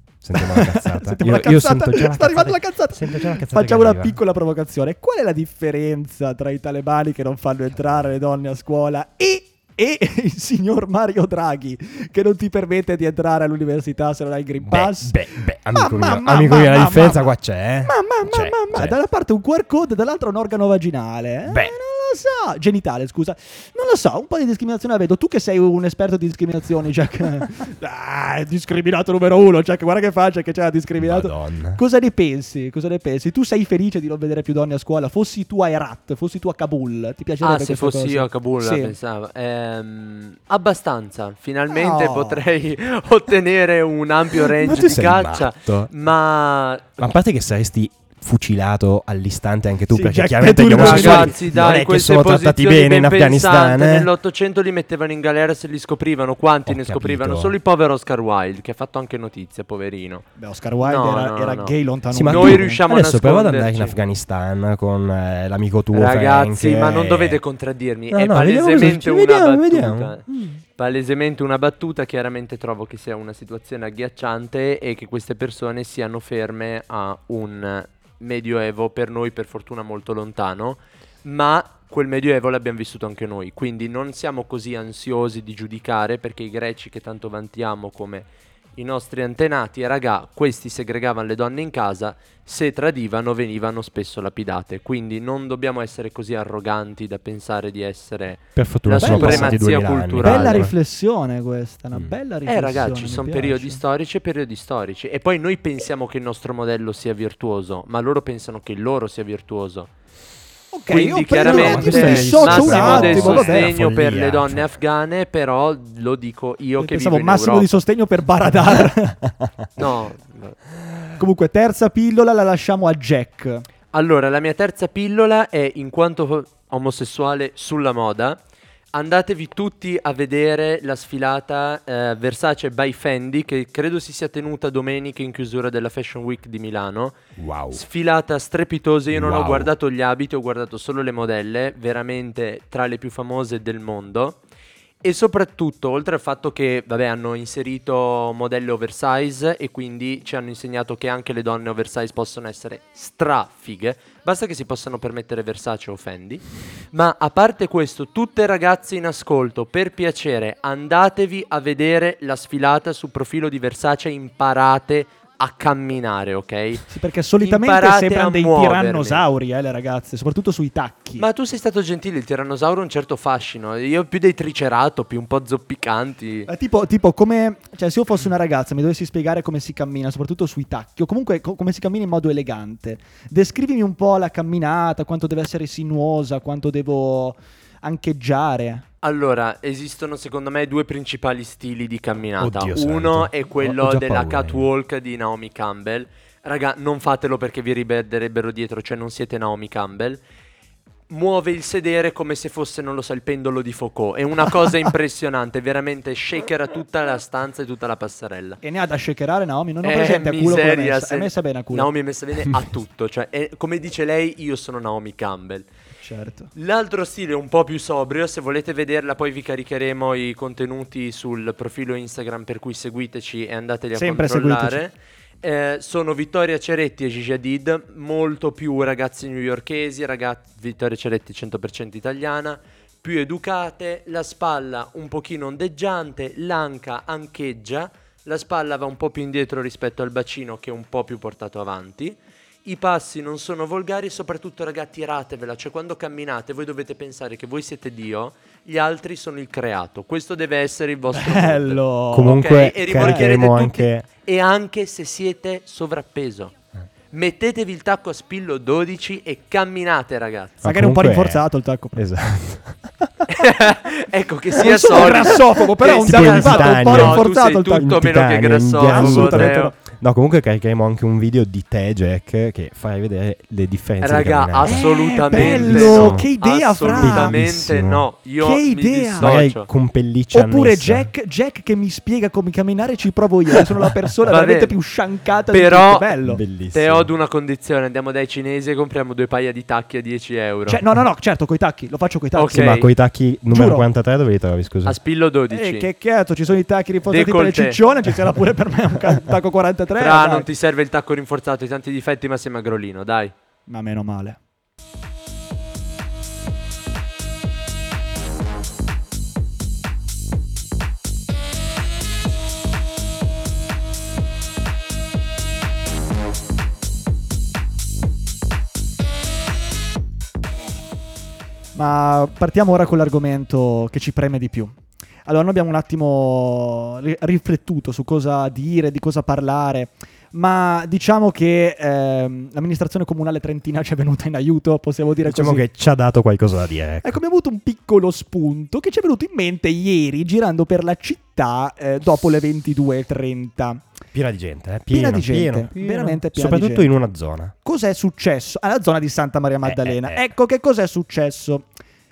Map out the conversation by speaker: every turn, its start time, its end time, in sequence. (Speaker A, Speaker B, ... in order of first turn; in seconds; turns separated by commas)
Speaker A: 0.2-4.2, Speaker B: 0.3-15.1, Speaker A: 14.6-19.0, Speaker B: 15.7-39.0, Speaker A: 21.5-21.7, Speaker A: 31.0-31.8, Speaker C: 37.4-46.9, Speaker B: 41.7-42.5, Speaker A: 44.4-45.9, Speaker A: 47.0-54.1, Speaker B: 49.9-51.6, Speaker C: 50.7-60.2, Speaker A: 56.7-57.6, Speaker B: 60.4-62.8, Speaker C: 60.8-61.7, Speaker A: 62.1-67.4, Speaker C: 62.3-64.0, Speaker C: 65.9-70.2, Speaker A: 68.1-70.6, Speaker C: 70.8-100.7, Speaker A: 98.5-100.7, Speaker B: 99.0-103.8, Speaker C: 102.5-109.9, Speaker B: 110.7-113.8, Speaker C: 110.9-117.7, Speaker A: 111.4-114.7, Speaker B: 116.8-119.2, Speaker C: 119.8-120.6, Speaker B: 121.2-123.7, Speaker C: 123.9-128.4, Speaker C: 128.9-137.2, Speaker A: 137.4-137.8, Speaker C: 137.7-144.4, Speaker A: 139.1-139.7, Speaker C: 145.0-166.9, Speaker B: 166.9-171.3, Speaker C: 167.4-169.2, Speaker C: 171.2-176.5, Speaker B: 176.5-188.8, Speaker C: 189.0-200.2, Speaker A: 192.4-194.7, Speaker C: 201.1-208.6, Speaker B: 208.6-211.9, Speaker C: 209.8-215.7, Speaker B: 216.0-216.5, Speaker C: 216.6-256.5, Speaker B: 223.9-224.8, Speaker B: 251.2-252.4, Speaker A: 252.1-254.1, Speaker B: 252.9-253.2, Speaker C: 257.1-260.6, Speaker A: 260.6-261.4, Speaker B: 260.6-262.0, Speaker A: 261.9-262.9, Speaker C: 263.3-269.7, Speaker B: 264.6-268.0, Speaker A: 266.1-276.3, Speaker B: 268.8-269.8, Speaker C: 274.0-279.7, Speaker B: 274.7-277.4, Speaker A: 276.9-278.1, Speaker B: 278.4-279.4, Speaker A: 279.2-281.1, Speaker B: 280.3-286.4, Speaker C: 284.2-284.8, Speaker C: 285.5-286.1, Speaker A: 286.2-287.1, Speaker C: 286.7-290.8, Speaker B: 290.7-292.8, Speaker C: 292.3-292.9, Speaker A: 292.5-295.0, Speaker B: 293.5-293.9, Speaker C: 294.9-295.9, Speaker B: 295.5-300.5, Speaker C: 297.1-297.8, Speaker C: 299.9-303.3, Speaker B: 303.7-304.4, Speaker B: 321.8-324.8, Speaker B: 325.3-335.6, Speaker A: 335.2-337.2, Speaker B: 337.0-343.8, Speaker A: 344.1-347.5, Speaker B: 344.9-346.9, Speaker B: 347.6-351.7, Speaker A: 349.6-350.3